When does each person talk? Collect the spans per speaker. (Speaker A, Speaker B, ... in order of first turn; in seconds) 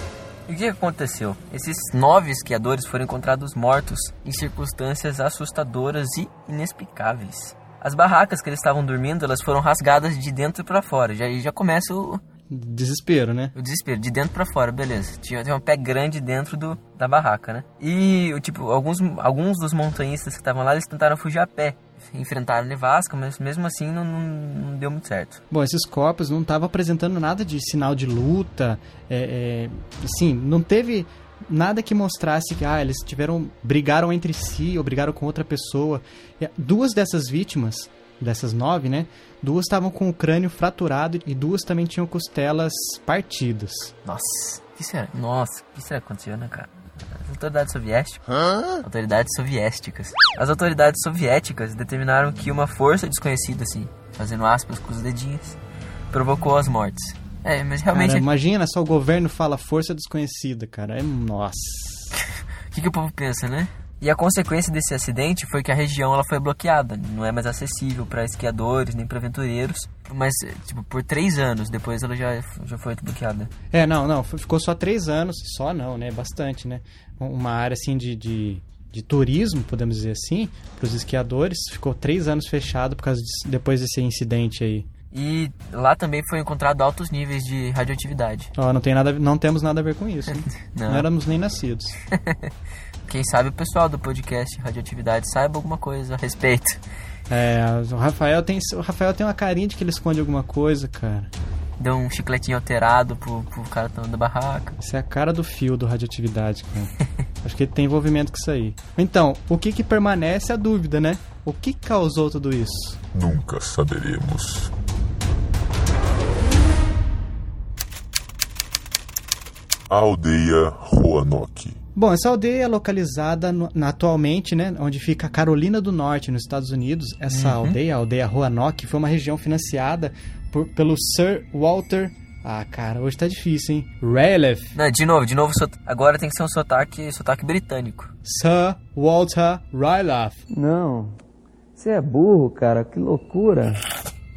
Speaker A: 0.5-12.2, 13.5-25.4, 44.0-48.2, 48.7-55.6, 56.1-58.2, 62.7-73.5, 85.1-88.5, 90.5-91.1, 92.1-92.5, 93.0-96.8, 101.8-104.8, 127.3-127.8, 134.7-138.1
Speaker B: 12.5-13.5, 25.5-43.9, 57.9-62.1, 73.7-84.9, 88.5-91.9, 97.3-101.3, 104.8-106.9, 107.4-113.0, 122.0-134.7, 138.2-140.4
Speaker C: 113.1-114.7, 119.9-121.8
Speaker D: 140.5-141.2, 141.8-143.8